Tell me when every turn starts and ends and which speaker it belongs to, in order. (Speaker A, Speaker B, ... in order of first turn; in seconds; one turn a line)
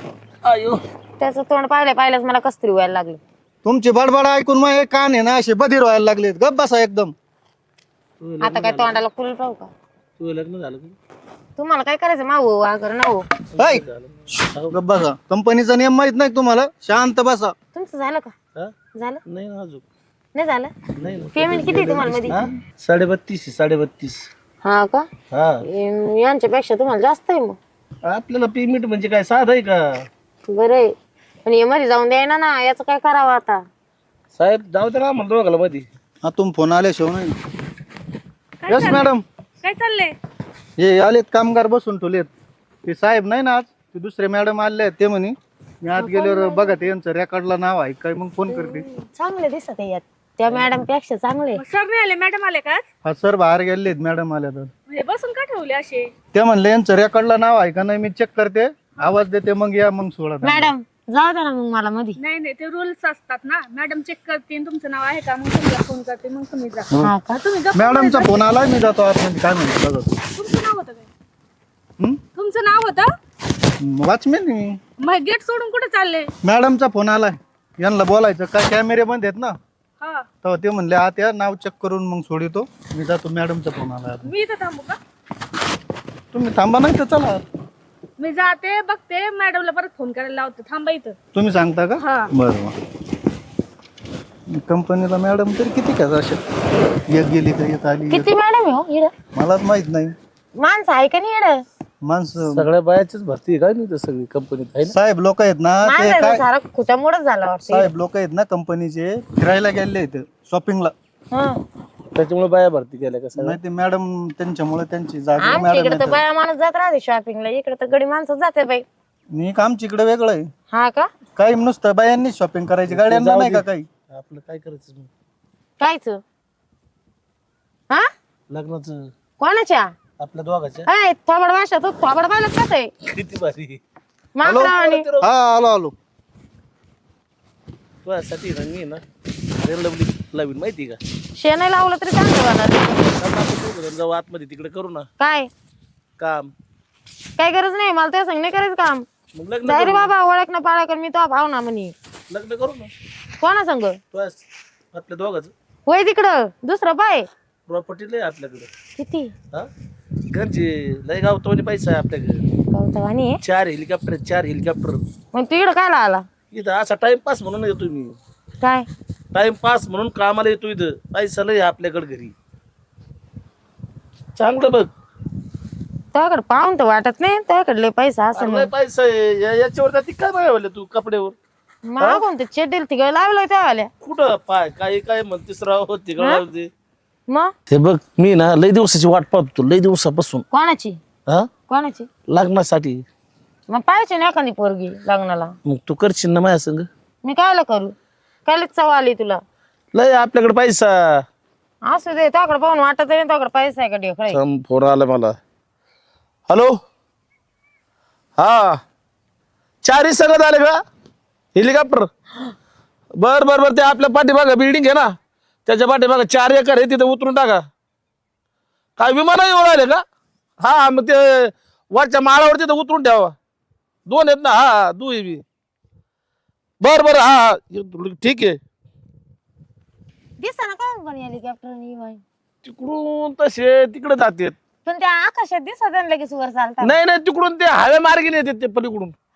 Speaker A: 0.4-0.8
Speaker B: 1.2-3.2
Speaker C: 3.6-7.1
Speaker A: 8.2-9.0
Speaker B: 8.4-9.7
Speaker A: 10.2-10.9
Speaker B: 11.6-13.3
Speaker A: 13.5-14.8
Speaker C: 13.6-13.8
Speaker C: 14.7-17.5
Speaker B: 17.7-18.3
Speaker B: 19.0-19.2
Speaker A: 19.2-19.8
Speaker B: 20.3-20.7
Speaker A: 20.9-24.3
Speaker B: 21.3-22.5
Speaker B: 24.6-25.1
Speaker A: 25.3-25.6
Speaker B: 25.6-27.6
Speaker A: 28.0-30.1
Speaker B: 30.5-30.9
Speaker B: 31.4-33.6
Speaker A: 34.3-35.9
Speaker C: 36.2-37.4
Speaker D: 38.6-39.1
Speaker C: 38.7-39.2
Speaker D: 39.6-40.1
Speaker C: 40.8-42.3
Speaker C: 42.9-48.9
Speaker B: 46.0-46.9
Speaker B: 48.5-51.6
Speaker D: 51.5-52.8
Speaker C: 53.0-54.7
Speaker D: 54.9-56.1
Speaker C: 56.3-60.7
Speaker B: 60.4-62.2
Speaker D: 62.2-68.5
Speaker B: 67.0-67.4
Speaker C: 67.7-70.1
Speaker D: 70.3-71.1
Speaker D: 72.3-73.1
Speaker C: 73.8-74.8
Speaker D: 75.0-76.3
Speaker C: 76.4-79.6
Speaker D: 80.0-80.2
Speaker C: 80.4-84.3
Speaker D: 84.2-85.0
Speaker C: 86.3-87.4
Speaker D: 88.2-91.2
Speaker C: 91.3-92.8
Speaker D: 92.0-92.3
Speaker C: 94.5-96.4
Speaker C: 97.1-98.3
Speaker B: 98.1-99.1
Speaker C: 99.3-100.1
Speaker B: 100.6-101.6
Speaker C: 102.0-102.7
Speaker A: 102.5-104.9
Speaker C: 104.9-106.4
Speaker B: 105.8-107.9
Speaker C: 107.7-110.9
Speaker B: 111.3-111.6
Speaker A: 112.1-113.6
Speaker C: 113.4-116.2
Speaker B: 115.4-118.8
Speaker C: 119.3-120.5
Speaker B: 120.7-121.1
Speaker C: 121.3-123.9
Speaker A: 122.9-125.1
Speaker B: 125.8-126.2
Speaker A: 128.5-129.0
Speaker B: 129.4-129.9
Speaker A: 130.2-130.9
Speaker B: 130.9-132.9
Speaker A: 133.0-133.8
Speaker B: 134.3-135.0
Speaker C: 134.4-135.9
Speaker A: 134.5-135.2
Speaker A: 138.0-139.0
Speaker A: 139.6-141.0
Speaker B: 141.3-143.1
Speaker A: 143.1-145.1
Speaker B: 145.2-145.5
Speaker A: 146.2-146.5
Speaker B: 147.4-149.1
Speaker A: 149.3-150.1
Speaker B: 149.6-151.9
Speaker A: 152.3-152.9
Speaker B: 153.4-154.0
Speaker A: 154.1-155.5
Speaker B: 155.9-157.3
Speaker A: 157.7-158.7
Speaker B: 159.0-159.3
Speaker A: 160.3-162.4
Speaker B: 162.7-163.4
Speaker A: 163.4-165.0
Speaker B: 165.3-166.2
Speaker A: 166.5-168.2
Speaker B: 168.6-168.9
Speaker A: 169.3-172.3
Speaker A: 174.3-174.9
Speaker B: 176.1-178.7
Speaker A: 178.3-181.3
Speaker B: 181.8-183.9
Speaker A: 184.0-186.7
Speaker A: 187.7-190.4
Speaker B: 190.5-191.0
Speaker B: 191.7-192.1
Speaker A: 192.3-193.0
Speaker B: 193.7-195.5
Speaker A: 195.7-196.9
Speaker B: 197.2-197.9
Speaker B: 198.4-199.4
Speaker A: 199.9-201.2
Speaker B: 201.8-204.4
Speaker A: 204.3-205.4
Speaker A: 206.5-206.7
Speaker A: 208.4-208.8
Speaker A: 209.8-210.8
Speaker A: 211.5-212.1
Speaker A: 213.2-215.1
Speaker A: 215.7-217.6
Speaker A: 219.0-220.0
Speaker A: 220.6-223.3
Speaker A: 224.1-225.4
Speaker A: 226.8-228.6
Speaker B: 230.4-232.2
Speaker A: 232.6-234.6
Speaker B: 234.8-236.9
Speaker A: 236.8-239.1